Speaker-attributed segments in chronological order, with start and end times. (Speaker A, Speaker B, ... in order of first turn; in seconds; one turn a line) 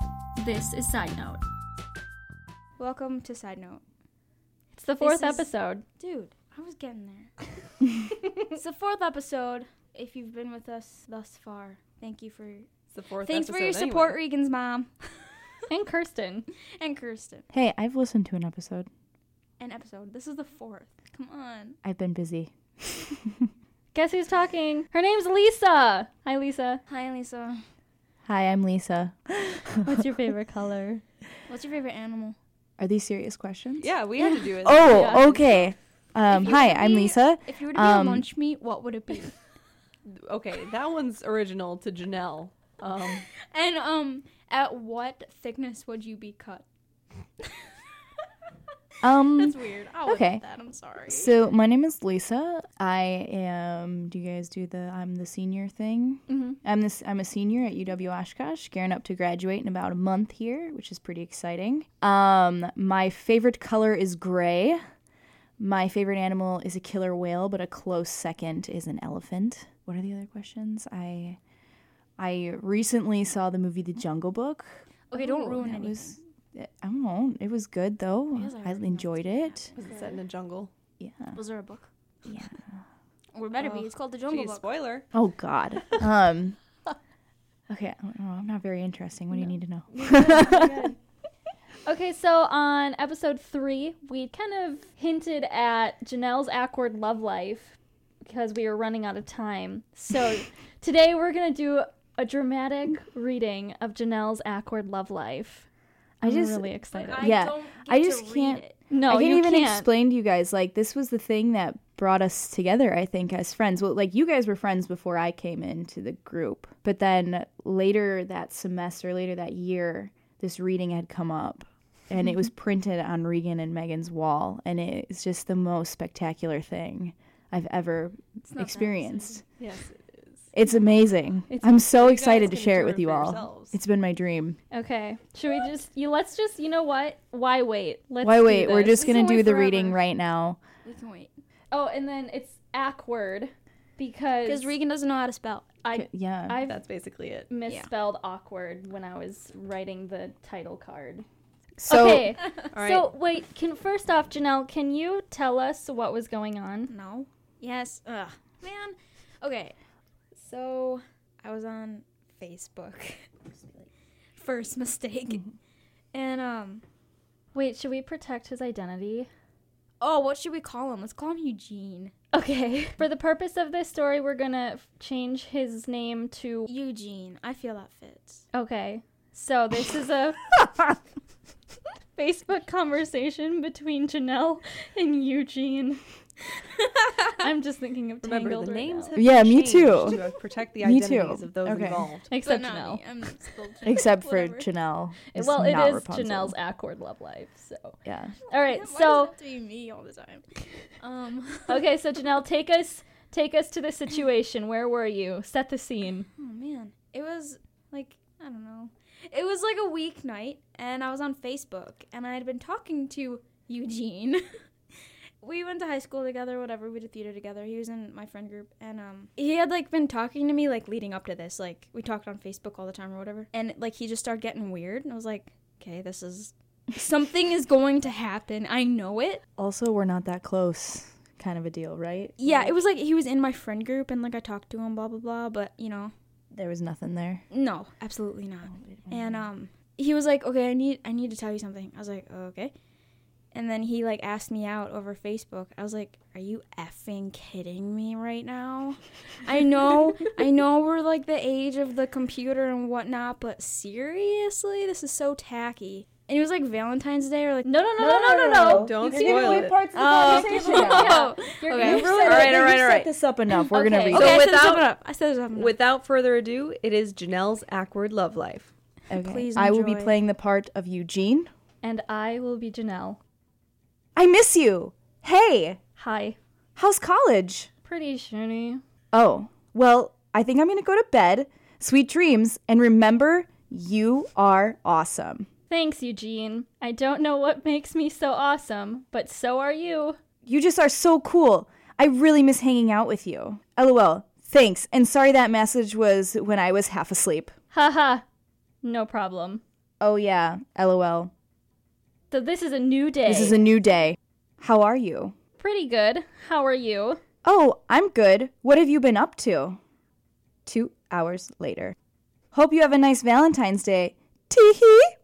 Speaker A: 0.4-1.4
Speaker B: 2.8-3.8
Speaker A: 4.7-5.8
Speaker B: 5.0-7.3
Speaker B: 8.5-12.7
Speaker C: 12.9-14.2
Speaker B: 13.2-15.3
Speaker A: 15.7-16.5
Speaker B: 16.8-17.4
Speaker D: 17.5-18.9
Speaker B: 19.6-21.8
Speaker D: 21.8-23.5
Speaker A: 23.9-26.8
Speaker B: 26.9-27.6
Speaker D: 28.2-30.1
Speaker A: 29.8-31.0
Speaker B: 31.5-32.4
Speaker D: 32.8-38.3
Speaker C: 33.8-35.5
Speaker A: 34.9-35.3
Speaker B: 36.3-39.3
Speaker C: 40.0-43.2
Speaker B: 43.5-46.6
Speaker D: 49.0-50.4
Speaker B: 49.3-51.3
Speaker D: 51.0-64.8
Speaker A: 56.3-56.6
Speaker D: 65.6-71.4
Speaker D: 72.2-79.7
Speaker B: 75.1-76.2
Speaker B: 78.3-79.9
Speaker C: 79.8-80.7
Speaker D: 81.0-81.4
Speaker B: 81.3-81.9
Speaker D: 82.2-82.8
Speaker B: 83.3-84.7
Speaker C: 83.6-85.1
Speaker D: 85.1-86.6
Speaker D: 87.7-90.9
Speaker A: 89.3-91.0
Speaker A: 91.8-105.7
Speaker D: 106.2-129.4
Speaker A: 106.2-107.3
Speaker B: 106.9-108.8
Speaker A: 108.9-109.9
Speaker B: 128.5-129.4
Speaker C: 129.6-130.5
Speaker D: 130.5-134.6
Speaker A: 131.5-131.8
Speaker C: 131.8-133.7
Speaker A: 134.7-139.1
Speaker D: 138.2-140.6
Speaker B: 138.9-140.0
Speaker B: 140.8-141.3
Speaker A: 141.7-144.7
Speaker B: 144.4-145.7
Speaker A: 145.8-146.8
Speaker D: 145.9-146.6
Speaker C: 146.6-147.5
Speaker A: 147.5-151.2
Speaker D: 151.8-152.4
Speaker A: 151.8-156.9
Speaker C: 152.7-153.1
Speaker B: 156.9-159.7
Speaker B: 160.3-165.4
Speaker B: 166.1-166.8
Speaker A: 167.5-169.3
Speaker B: 170.0-172.1
Speaker A: 172.3-176.7
Speaker B: 176.7-178.4
Speaker A: 178.5-180.6
Speaker A: 182.2-186.0
Speaker A: 187.3-189.2
Speaker C: 188.2-192.3
Speaker D: 189.1-190.2
Speaker D: 190.8-192.1
Speaker A: 192.3-193.0
Speaker B: 192.4-194.7
Speaker D: 193.8-196.5
Speaker A: 195.3-198.0
Speaker D: 198.0-198.3
Speaker A: 198.5-199.3
Speaker B: 198.5-201.9
Speaker A: 201.7-206.3
Speaker B: 206.4-214.4
Speaker B: 215.4-229.4
Speaker D: 229.6-232.7
Speaker B: 232.4-236.1
Speaker D: 236.5-237.4
Speaker B: 237.5-242.7
Speaker D: 238.8-239.4
Speaker B: 243.5-257.7
Speaker A: 257.6-262.4
Speaker D: 258.0-264.5
Speaker C: 258.6-259.8
Speaker B: 259.9-262.6
Speaker C: 262.0-263.1
Speaker A: 263.7-264.4
Speaker B: 264.1-265.7
Speaker C: 264.1-264.9
Speaker C: 265.5-268.7
Speaker D: 269.1-271.5
Speaker B: 269.1-270.2
Speaker A: 271.8-273.2
Speaker D: 274.1-275.8
Speaker A: 276.0-276.4
Speaker D: 276.8-277.7
Speaker A: 277.8-278.8
Speaker D: 279.1-285.5
Speaker A: 285.7-290.2
Speaker D: 290.4-297.5
Speaker A: 297.7-298.2
Speaker A: 298.8-299.6
Speaker D: 300.0-301.3
Speaker A: 302.3-303.6
Speaker D: 303.2-305.4
Speaker A: 305.6-307.2
Speaker D: 307.4-309.8
Speaker D: 310.6-311.9
Speaker D: 312.5-315.1